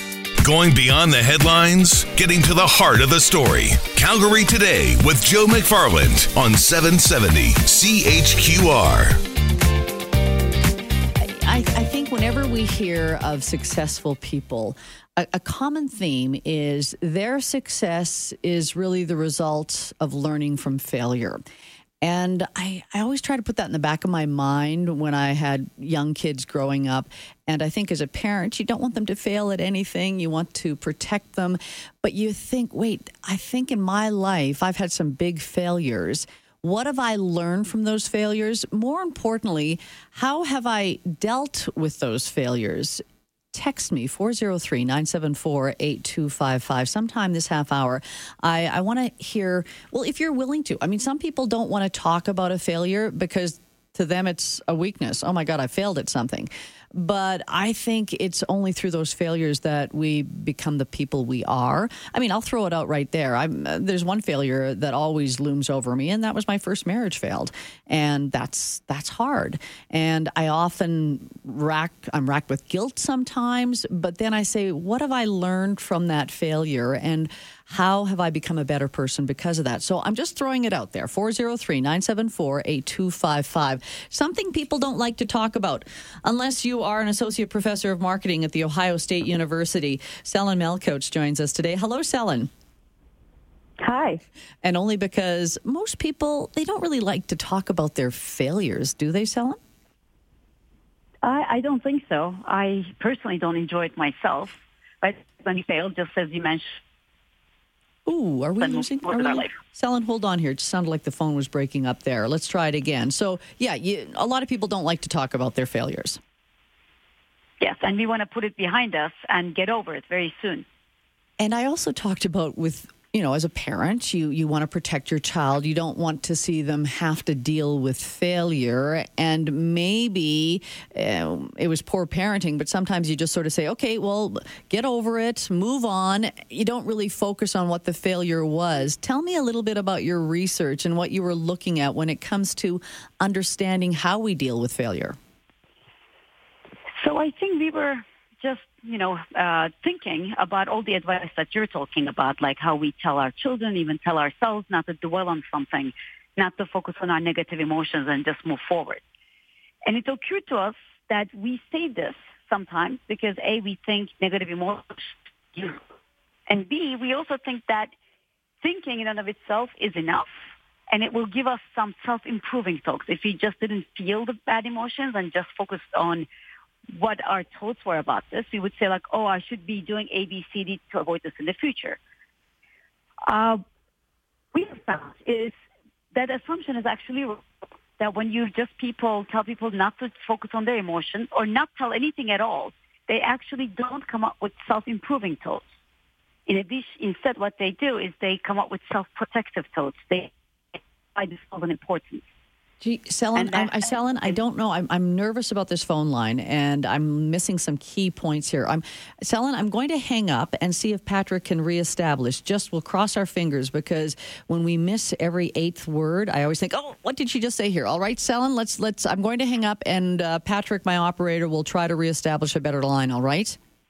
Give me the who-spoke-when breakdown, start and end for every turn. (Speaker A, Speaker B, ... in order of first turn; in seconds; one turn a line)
Speaker A: 0.4-9.2
Speaker B: 11.2-21.4
Speaker B: 22.0-43.0
Speaker B: 43.5-92.5
Speaker C: 93.8-94.2
Speaker B: 94.6-99.6
Speaker C: 101.2-106.8
Speaker B: 108.0-116.2
Speaker C: 108.6-109.5
Speaker C: 117.6-120.6
Speaker B: 121.4-145.2
Speaker C: 146.9-159.0
Speaker C: 159.8-165.8
Speaker C: 166.5-167.9
Speaker C: 168.6-170.3
Speaker C: 170.9-176.2
Speaker C: 176.9-182.0
Speaker C: 183.2-183.6
Speaker C: 184.5-185.5
Speaker C: 186.1-187.4
Speaker C: 188.0-195.7
Speaker C: 196.4-202.3
Speaker B: 202.8-223.6
Speaker C: 203.3-204.3